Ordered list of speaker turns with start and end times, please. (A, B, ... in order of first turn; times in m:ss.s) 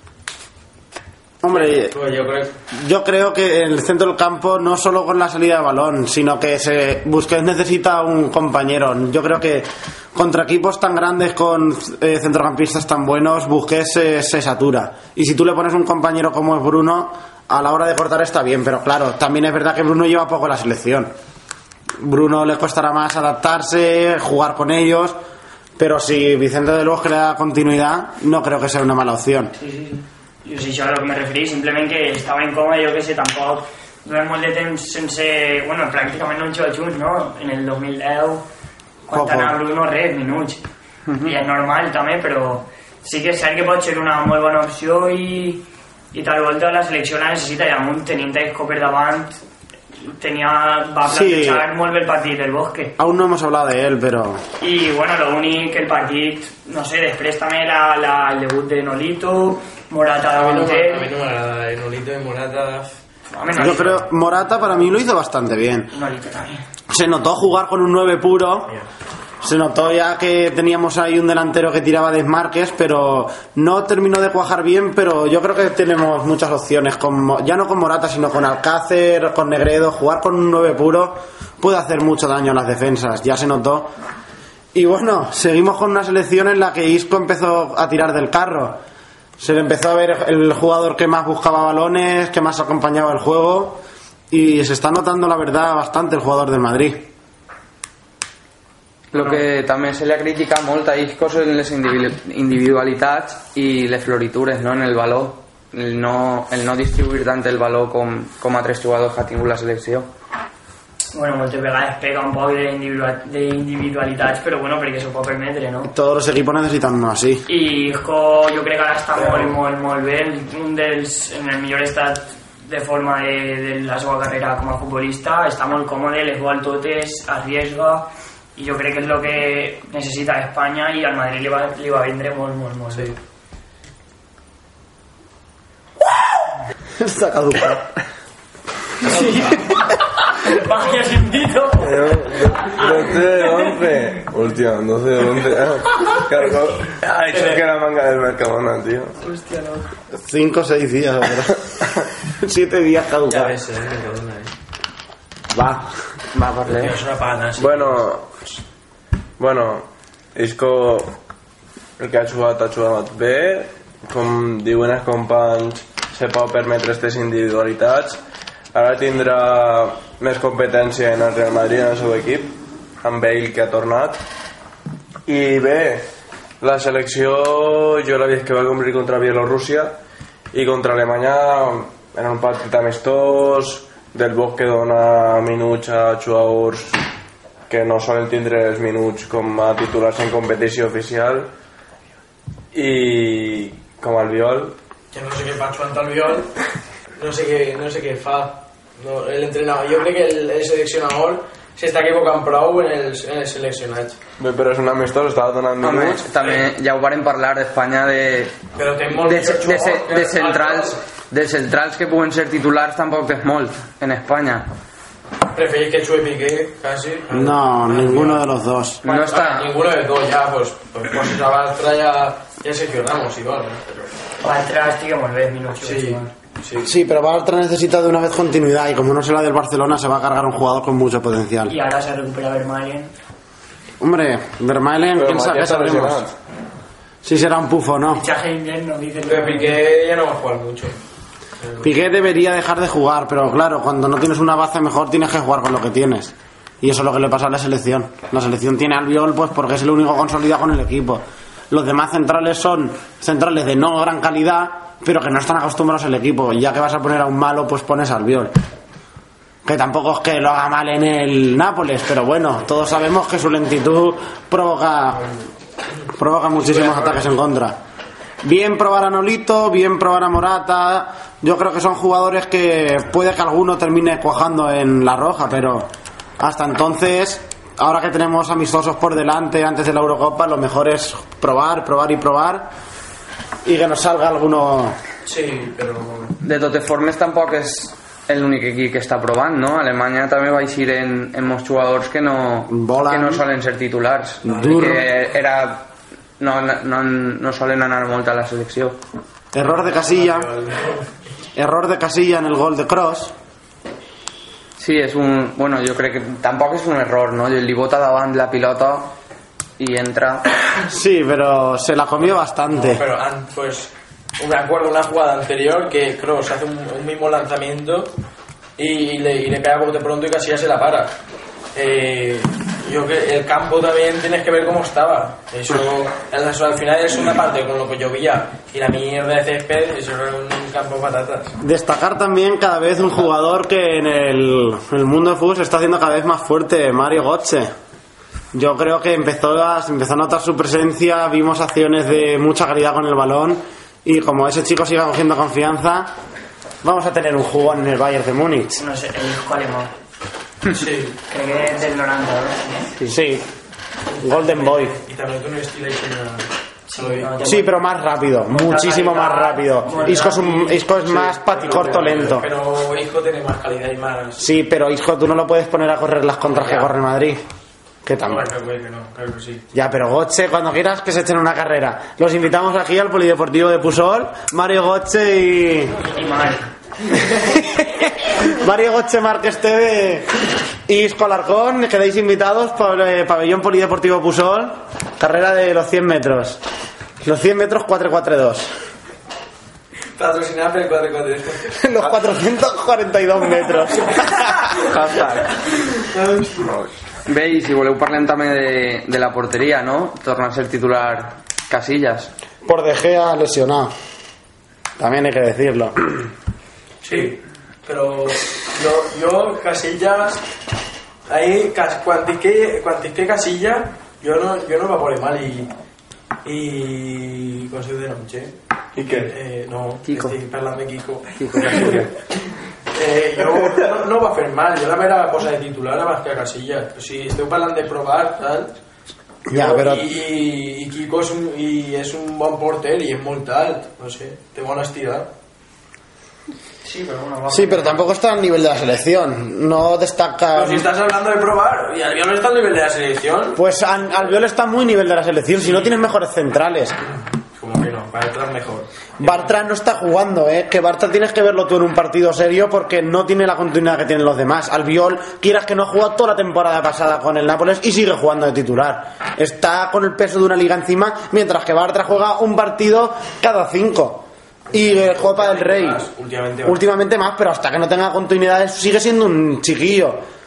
0:01.4-0:01.9 A
0:01.5-0:02.5 B
0:02.7-0:21.1 A
0:22.0-0:25.2 A
0:25.8-0:29.5 A
0:29.6-0:38.4 C
0:39.1-0:40.6 C
0:39.1-0:39.6 A
0:41.1-0:41.3 D
0:41.2-0:49.4 C
0:50.0-0:52.9 C
0:51.1-0:51.7 A
0:53.0-0:54.4 A
0:54.6-1:01.1 C
1:00.3-1:02.9 B
1:03.3-1:04.1 C
1:03.6-1:05.9 A
1:05.9-1:06.6 C
1:06.9-1:08.7 A
1:09.4-1:23.9 A
1:24.7-1:28.8 A
1:29.4-1:37.1 A
1:39.1-1:50.1 D
1:51.1-1:55.9 C
1:55.8-1:57.5 A
1:57.5-2:13.2 C
1:59.2-1:59.5 B
2:17.0-2:17.9 A
2:19.0-2:23.2 C
2:19.0-2:19.6 B
2:21.8-2:29.2 E
2:29.2-2:29.9 C
2:30.1-2:33.6 A
2:33.3-2:34.5 B
2:35.5-2:35.9 A
2:36.3-2:37.0 D
2:36.6-2:38.0 B
2:37.6-2:38.5 E
2:39.4-2:41.2 E
2:42.0-2:48.2 E
2:48.7-2:54.2 E
2:55.3-2:56.1 E
2:56.6-3:00.0 E
3:00.5-3:07.0 E
3:07.7-3:11.5 E
3:12.7-3:14.8 E
3:15.1-3:16.5 B
3:17.2-3:24.2 B
3:24.4-3:26.3 E
3:25.8-3:28.6 D
3:28.7-3:31.0 B
3:29.1-3:34.7 D
3:35.5-3:38.4 B
3:37.3-3:39.0 A
3:39.0-3:39.7 D
3:39.0-3:44.1 B
3:44.4-3:46.3 C
3:45.8-3:46.9 B
3:46.8-3:51.7 A
3:51.7-3:53.1 C
3:54.0-3:56.2 A
3:55.2-3:56.3 E
3:57.2-3:58.2 A
3:58.2-3:59.8 C
3:59.2-4:01.0 B
4:01.6-4:01.9 B
4:01.8-4:18.6 A
4:19.6-4:25.3 A
4:26.2-4:27.8 A
4:26.6-4:27.3 B
4:28.4-4:35.9 A
4:36.4-4:42.7 A
4:43.6-4:45.0 A
4:45.2-4:46.4 B
4:46.4-4:55.9 D
4:52.7-4:53.4 A
4:54.4-4:55.0 A
4:56.4-4:59.0 D
4:59.5-5:00.5 A
4:59.8-5:01.0 B
5:01.6-5:03.3 A
5:04.8-5:09.1 D
5:09.8-5:10.5 D
5:10.9-5:13.0 A
5:12.7-5:18.1 B
5:18.8-5:21.2 B
5:21.7-5:31.6 B
5:31.6-5:37.7 A
5:38.5-5:46.1 A
5:46.8-5:48.8 A
5:48.8-5:49.9 C
5:50.7-5:51.2 B
5:51.3-5:52.9 C
5:53.1-5:53.5 A
5:54.1-5:57.6 B
5:54.2-5:55.0 A
5:56.9-5:57.8 C
5:57.4-6:02.5 A
5:58.5-6:00.8 C
6:00.1-6:04.4 B
6:04.4-6:07.4 A
6:06.6-6:06.9 B
6:08.0-6:08.5 A
6:08.2-6:09.7 B
6:09.7-6:16.0 A
6:16.1-6:16.7 C
6:17.3-6:20.3 A
6:20.9-6:26.6 A
6:27.2-6:28.7 A
6:30.2-6:31.7 B
6:31.7-6:34.7 A
6:34.8-6:35.7 E
6:36.1-6:36.6 B
6:36.5-6:36.9 E
6:37.3-6:42.3 D
6:42.6-6:43.9 A
6:45.0-6:46.3 A
6:47.0-6:50.4 B
6:51.3-6:55.7 B
6:56.4-6:58.6 B
6:58.9-6:59.3 E
6:59.1-7:02.1 B
7:00.1-7:00.3 D
7:01.4-7:02.1 D
7:02.9-7:08.7 B
7:09.5-7:10.1 A
7:09.5-7:15.3 B
7:16.8-7:18.0 C
7:17.5-7:20.9 A
7:20.5-7:23.6 B
7:23.6-7:27.0 A
7:27.5-7:29.5 B
7:29.2-7:46.0 A
7:44.7-7:46.8 B
7:46.6-7:50.2 A